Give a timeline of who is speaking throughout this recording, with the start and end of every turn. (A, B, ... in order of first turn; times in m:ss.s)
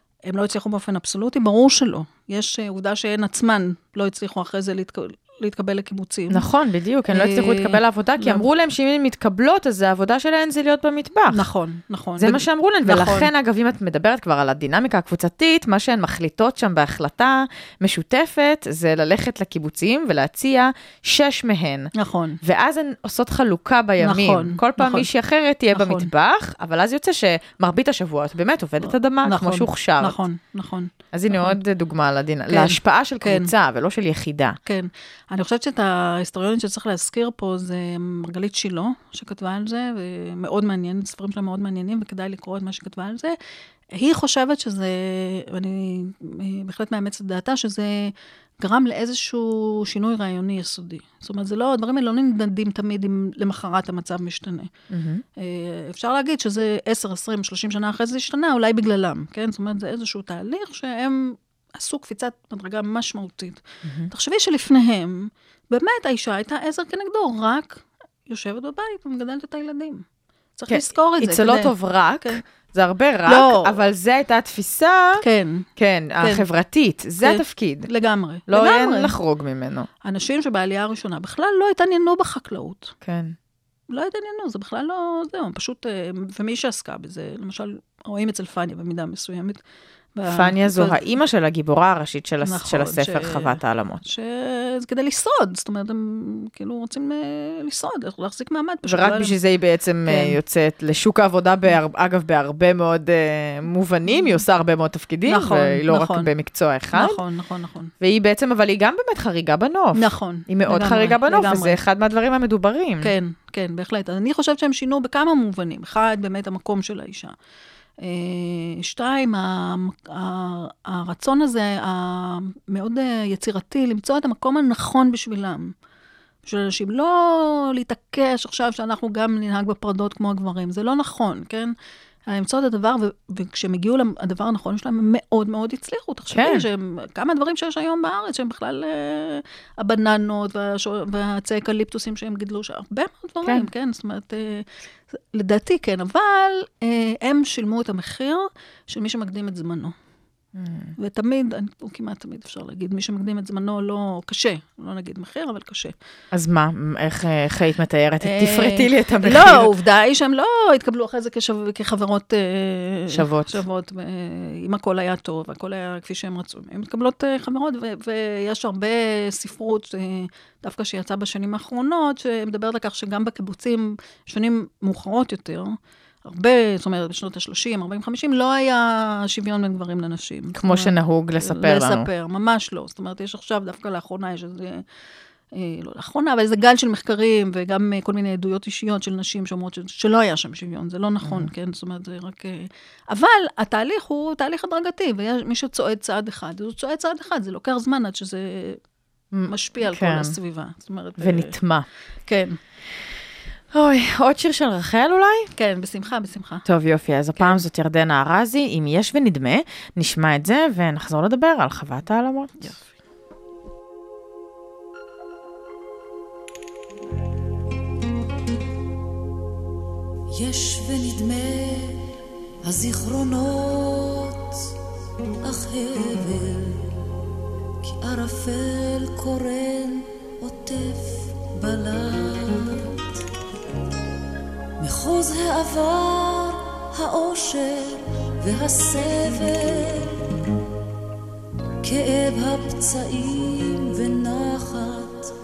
0:00.2-0:06.4 A
0:06.3-0:11.5 B
0:07.1-0:08.4 A
0:11.3-0:13.3 A
0:12.2-0:21.9 B
0:21.9-0:22.4 A
0:22.4-0:30.2 B
0:24.0-0:25.1 A
0:25.7-0:26.1 A
0:28.8-0:31.6 A
0:31.1-0:34.6 B
0:32.5-0:33.5 A
0:34.6-0:43.4 A
0:43.9-0:54.7 A
0:54.9-0:55.2 B
0:55.4-1:10.0 A
1:03.8-1:04.1 B
1:10.6-1:12.4 A
1:10.7-1:15.2 B
1:13.2-1:13.8 A
1:15.2-1:15.7 A
1:15.8-1:17.9 B
1:16.2-1:16.4 A
1:17.2-1:19.1 A
1:18.5-1:19.9 B
1:20.0-1:22.9 A
1:23.0-1:23.4 B
1:23.9-1:29.6 A
1:30.1-1:31.1 A
1:30.2-1:34.0 B
1:32.4-1:39.4 A
1:38.9-1:47.2 B
1:40.0-1:40.4 A
1:45.2-1:46.3 A
1:46.9-1:47.9 A
1:48.0-1:53.1 B
1:49.9-1:51.8 A
1:53.0-1:57.3 A
1:58.0-2:05.7 A
2:06.4-2:11.7 A
2:12.3-2:29.9 A
2:16.3-2:16.7 B
2:30.5-2:30.9 B
2:31.0-2:35.9 A
2:36.3-2:39.7 B
2:38.2-3:04.8 A
2:43.1-2:43.6 B
3:00.5-3:02.1 B
3:05.5-3:18.8 A
3:11.2-3:11.5 B
3:19.3-3:20.3 B
3:19.5-3:21.5 A
3:21.2-3:21.9 B
3:22.3-3:22.6 A
3:23.7-3:25.5 B
3:25.6-3:26.6 A
3:26.6-3:32.7 B
3:27.4-3:27.6 A
3:32.6-3:32.9 A
3:40.3-3:42.0 C
3:42.6-3:44.5 C
3:45.4-3:46.8 C
3:47.8-3:52.8 C
3:54.8-4:00.1 C
4:01.8-4:05.3 C